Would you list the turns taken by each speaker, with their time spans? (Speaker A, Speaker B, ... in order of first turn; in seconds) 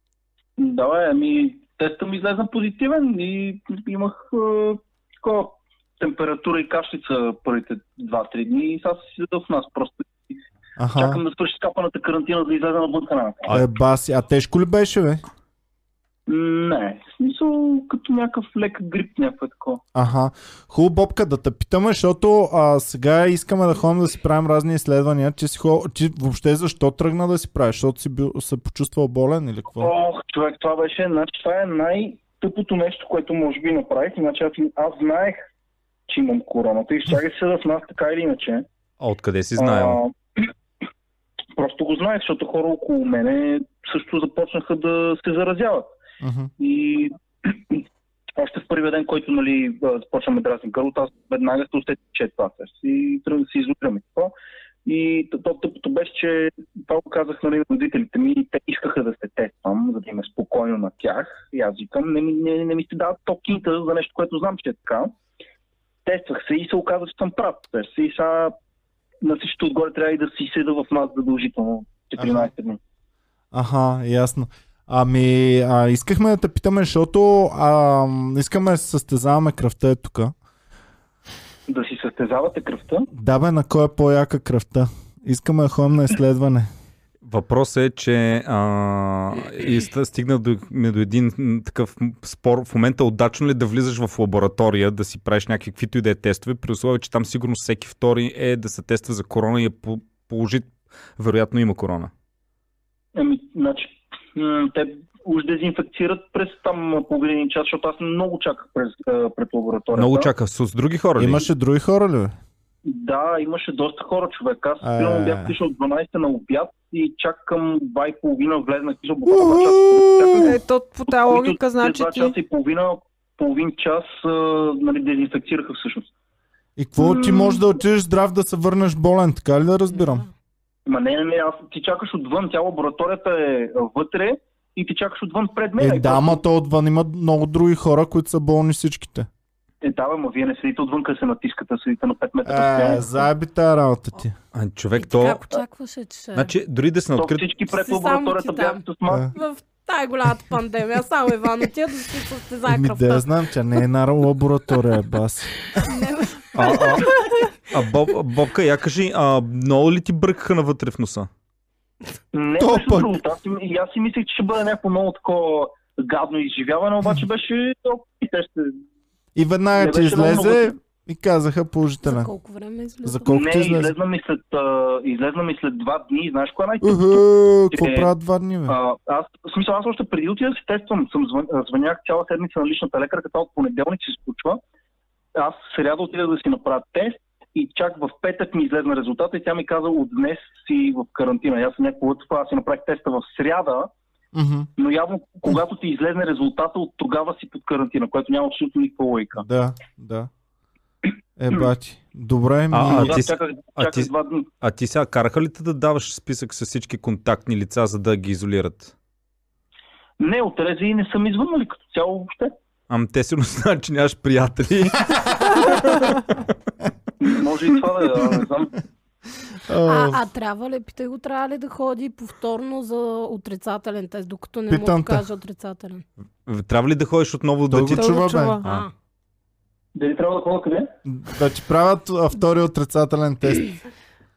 Speaker A: 0.6-10.4, 10.9-13.5, 16.3-19.8, 29.8-35.4, 36.1-38.6, 39.6-40.5, 41.5-45.9, 46.6-47.8, 48.4-54.3, 54.8-65.1, 66.0-68.5, 69.2-72.8, 81.7-83.1, 103.1-110.3, 112.8-120.6, 121.1-126.1, 127.0-127.6, 130.8-136.4, 139.8-143.1, 147.1-149.3, 162.3-168.7, 169.8-170.8, 173.3-178.1, 178.7-184.6, 185.3-193.9, 194.8-199.4, 202.8-204.5, 210.2-212.5, 217.2-218.7, 229.9-230.9
Speaker B: 10.8-11.2, 13.5-15.2, 19.9-29.9, 46.2-46.5, 72.2-72.5, 73.5-80.3, 83.1-86.7, 111.2-112.3, 114.8-115.5, 119.2-120.5, 126.8-130.2, 135.8-139.3, 142.4-144.3, 149.1-149.3, 152.7-155.7, 162.6-163.2, 169.3-172.3, 173.0-173.9, 176.8-178.8, 194.3-194.7, 199.4-200.3, 201.4-203.2, 219.6-220.2, 224.7-225.2, 227.7-228.6, 231.1-233.7
Speaker C: 39.0-40.0, 87.2-102.1, 109.9-111.5, 144.5-145.4, 146.3-147.4, 156.5-157.2, 157.7-161.3, 202.7-204.1, 204.6-208.9, 212.9-215.8, 226.4-228.8
Speaker D: 120.4-122.3, 227.9-228.7
Speaker E: 145.0-146.5, 147.7-148.8, 149.3-153.2, 155.8-157.5, 172.0-173.3, 219.8-226.0, 228.6-228.9